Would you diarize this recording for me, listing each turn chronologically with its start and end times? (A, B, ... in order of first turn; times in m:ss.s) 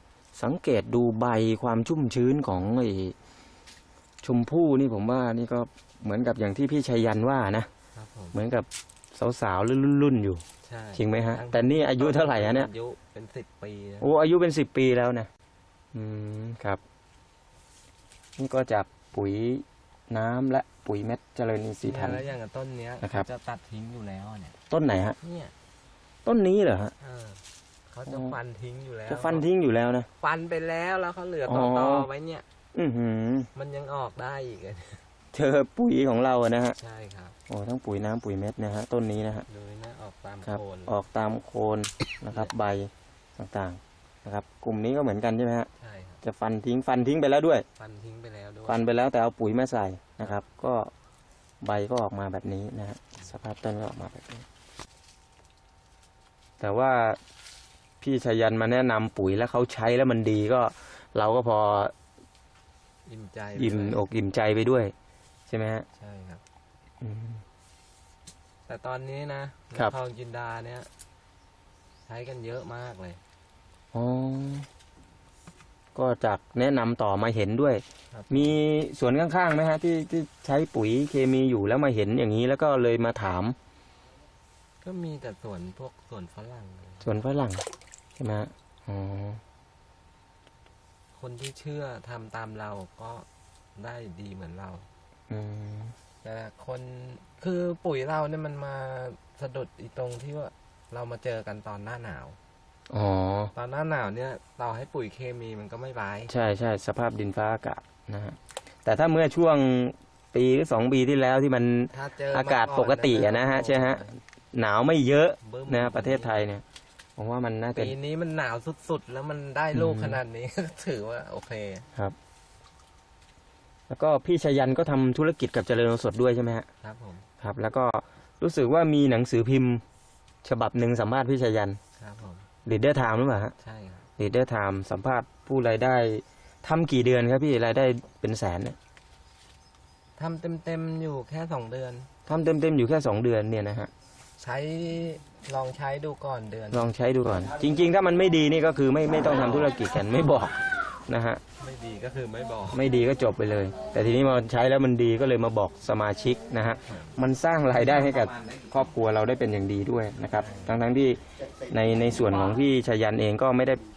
0:00.4-0:03.2 A
0:04.2-0:07.7 A
0:08.0-0:08.4 B
0:08.3-0:10.4 A
0:10.6-0:14.1 B
0:11.0-0:12.7 A
0:14.0-0:15.3 A
0:15.9-0:16.8 A
0:18.4-0:22.2 A
0:21.8-0:24.6 B
0:24.7-0:25.2 A
0:25.2-0:25.5 B
0:26.2-0:26.9 A
0:27.0-0:29.5 B
0:29.1-0:30.1 A
0:30.2-0:32.4 B
0:31.5-0:32.1 A
0:32.7-0:33.5 A
0:33.6-0:35.0 B
0:35.3-0:36.8 A
0:36.8-0:37.4 B
0:37.5-0:39.5 A
0:39.5-0:41.0 B
0:40.5-0:45.7 A
0:45.8-0:46.2 B
0:46.2-0:47.6 A
0:47.8-0:48.9 B
0:48.7-0:50.9 A
0:51.6-0:54.4 A
0:56.6-0:57.2 A
0:58.0-1:01.9 A
1:03.0-1:04.0 B
1:03.6-1:04.9 A
1:05.5-1:05.9 A
1:06.0-1:06.4 B
1:07.0-1:07.4 A
1:08.7-1:10.9 B
1:12.1-1:13.2 B
1:13.9-1:14.7 A
1:16.0-1:23.6 A
1:18.1-1:18.6 B
1:24.8-1:27.1 B
1:27.0-1:27.6 A
1:28.2-1:29.4 A
1:31.1-1:34.9 B
1:35.3-1:35.9 A
1:36.2-1:42.4 B
1:42.9-1:43.5 A
1:43.5-1:46.3 B
1:46.3-1:56.6 A
1:51.9-1:54.2 B
1:55.4-1:56.5 B
1:57.2-1:57.9 A
1:57.8-2:01.9 B
1:59.7-2:00.2 A
2:03.9-2:06.7 A
2:06.8-2:07.3 B
2:07.4-2:09.8 A
2:10.4-2:11.8 A
2:12.0-2:12.5 B
2:12.7-2:13.5 A
2:13.6-2:14.1 B
2:14.2-2:18.8 A
2:20.2-2:22.1 B
2:22.3-2:23.9 A
2:24.4-2:26.9 B
2:26.7-2:31.4 A
2:31.6-2:32.9 B
2:32.7-2:43.8 A
2:40.2-2:40.9 B